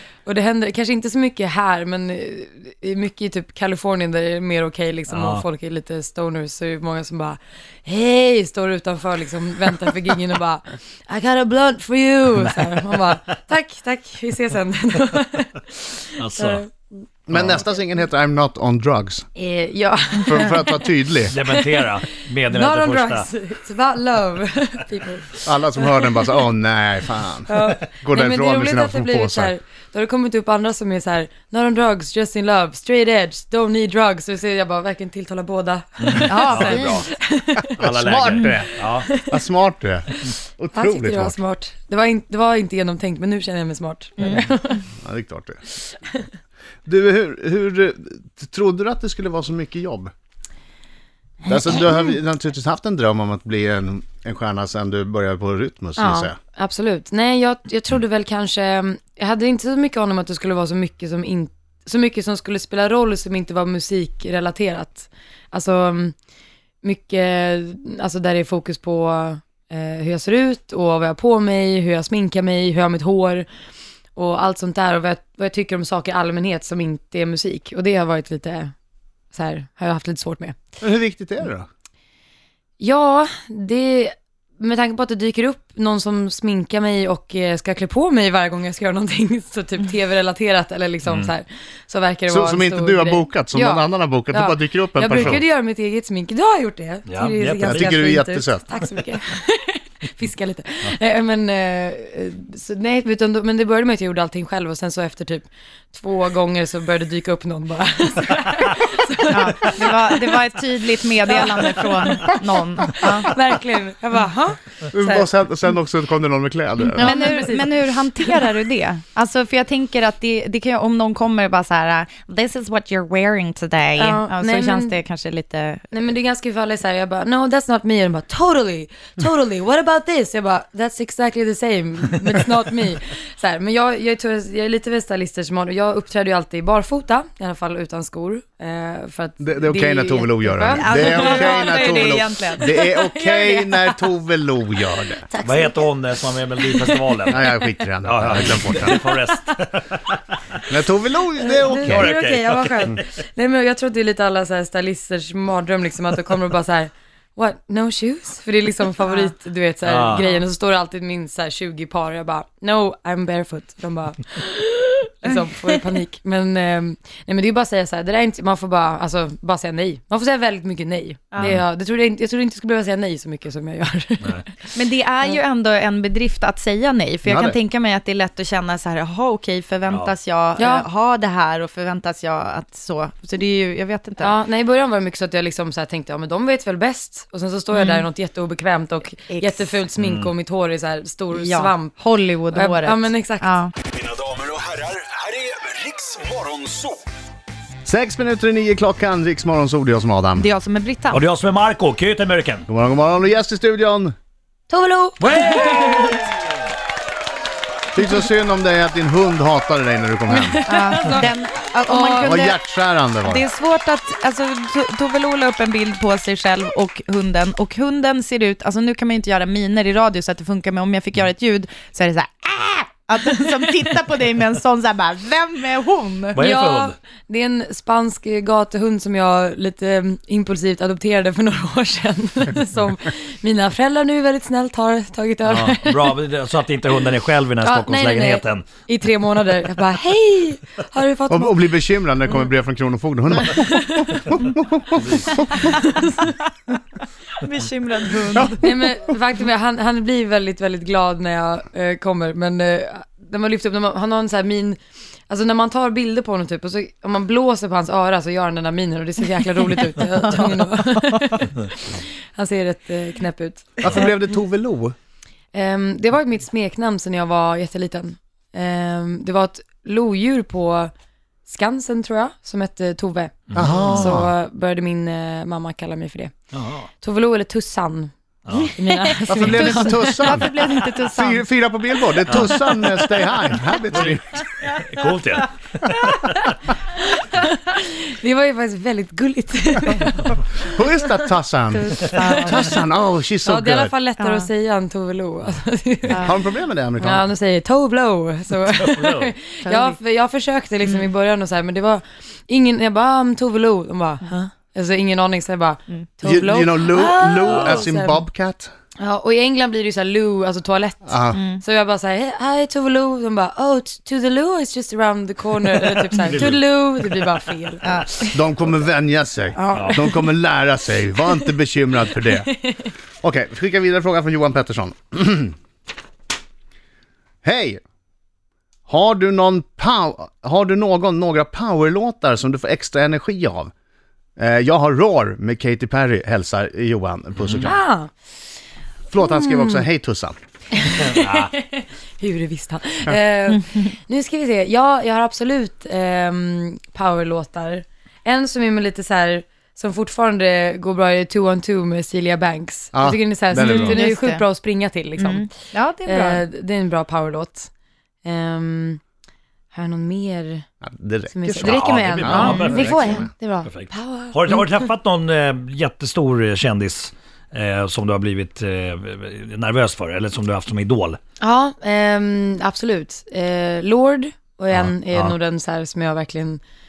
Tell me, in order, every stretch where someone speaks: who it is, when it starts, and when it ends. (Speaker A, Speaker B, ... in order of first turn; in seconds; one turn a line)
Speaker A: 0.3-16.9
Speaker B: 5.1-5.4
Speaker B: 12.4-13.0
Speaker B: 16.2-16.6
Speaker C: 17.3-19.3
Speaker B: 17.3-17.6
Speaker A: 19.4-20.9
Speaker C: 20.2-21.4
Speaker B: 21.3-23.3
Speaker A: 21.4-21.8
Speaker A: 22.4-26.3
Speaker C: 25.4-29.5
Speaker A: 27.5-37.8
Speaker B: 36.0-37.1
Speaker D: 36.3-37.1
Speaker B: 37.8-39.1
Speaker C: 37.8-41.4
Speaker A: 38.8-39.3
Speaker A: 40.1-44.9
Speaker C: 45.0-45.6
Speaker A: 45.9-46.3
Speaker C: 46.9-50.1
Speaker C: 51.5-56.4
Speaker A: 56.0-66.2
Speaker A: 66.8-73.5
Speaker A: 74.2-78.7
Speaker A: 79.3-80.6
Speaker C: 80.8-81.7
Speaker A: 82.8-110.4
Speaker B: 91.1-91.3
Speaker C: 92.3-95.4
Speaker B: 97.1-97.9
Speaker C: 97.7-98.7
Speaker D: 109.3-113.3
Speaker A: 111.3-115.3
Speaker C: 114.9-117.1
Speaker D: 117.0-125.8
Speaker A: 117.0-117.7
Speaker A: 124.0-125.0
Speaker A: 125.9-142.0
Speaker C: 139.4-145.3
Speaker D: 140.5-142.7
Speaker A: 142.7-144.0
Speaker A: 145.3-145.9
Speaker B: 145.4-150.2
Speaker A: 146.6-147.5
Speaker C: 147.3-149.0
Speaker A: 148.7-149.5
Speaker C: 150.7-152.1
Speaker A: 151.4-174.7
Speaker B: 151.9-153.0
Speaker B: 159.8-160.3
Speaker D: 174.7-184.4
Speaker C: 177.2-177.6
Speaker B: 179.9-180.1
Speaker A: 180.6-180.9
Speaker A: 184.2-191.9
Speaker D: 187.7-188.1
Speaker D: 189.3-189.8
Speaker B: 190.0-190.3
Speaker D: 191.3-193.7
Speaker A: 192.5-193.5
Speaker E: 194.0-197.0
Speaker C: 197.8-200.5
Speaker D: 200.4-201.2
Speaker B: 201.1-202.7
Speaker C: 202.7-204.1
Speaker A: 204.7-206.2
Speaker B: 205.2-206.2
Speaker C: 207.9-210.6
Speaker A: 210.3-211.3
Speaker D: 210.7-212.6
Speaker A: 211.9-212.3
Speaker C: 212.2-213.5
Speaker D: 213.2-226.4
Speaker A: 226.3-236.2
Speaker B: 226.3-227.0
Speaker B: 235.5-238.7
Speaker A: 237.6-241.7
Speaker C: 241.3-245.4
Speaker A: 243.5-244.3
Speaker B: 244.9-245.4
Speaker A: 245.6-246.3
Speaker D: 247.4-248.7
Speaker A: 248.6-254.8
Speaker A: 255.3-264.1
Speaker D: 260.2-260.6
Speaker C: 263.8-264.9
Speaker A: 265.5-270.9
Speaker A: 271.5-276.3
Speaker B: 273.5-274.2
Speaker C: 273.5-274.3
Speaker B: 276.5-276.9
Speaker A: 277.0-278.1
Speaker B: 278.4-278.8
Speaker A: 278.7-280.4
Speaker D: 278.9-281.4
Speaker C: 279.3-280.5
Speaker C: 281.1-284.4
Speaker B: 282.3-282.5
Speaker B: 283.9-286.5
Speaker A: 287.0-290.7
Speaker C: 290.6-293.9
Speaker D: 291.7-292.8
Speaker A: 293.4-296.4
Speaker D: 294.2-294.5
Speaker C: 296.2-297.3
Speaker A: 297.0-308.2
Speaker B: 298.7-299.3
Speaker D: 299.6-300.0
Speaker C: 306.2-308.7
Speaker B: 307.5-307.9
Speaker A: 309.0-317.9
Speaker C: 311.1-311.4
Speaker D: 311.3-311.6
Speaker B: 316.2-316.6
Speaker D: 317.8-318.4
Speaker C: 318.3-322.5
Speaker D: 319.6-320.1
Speaker B: 319.7-320.0
Speaker C: 323.2-325.6
Speaker C: 327.4-327.8
Speaker C: 328.9-333.7
Speaker C: 334.4-337.8
Speaker B: 337.4-337.8
Speaker A: 337.6-338.1
Speaker C: 339.1-340.4
Speaker A: 339.2-339.8
Speaker A: 340.7-355.5
Speaker B: 341.0-341.6
Speaker C: 352.9-354.0
Speaker D: 353.6-354.5
Speaker D: 355.2-356.4
Speaker A: 356.1-357.7
Speaker A: 358.2-359.0
Speaker A: 359.7-360.7
Speaker C: 360.8-363.3
Speaker A: 361.3-364.7
Speaker B: 361.6-371.2
Speaker A: 371.4-376.6
Speaker B: 374.7-375.4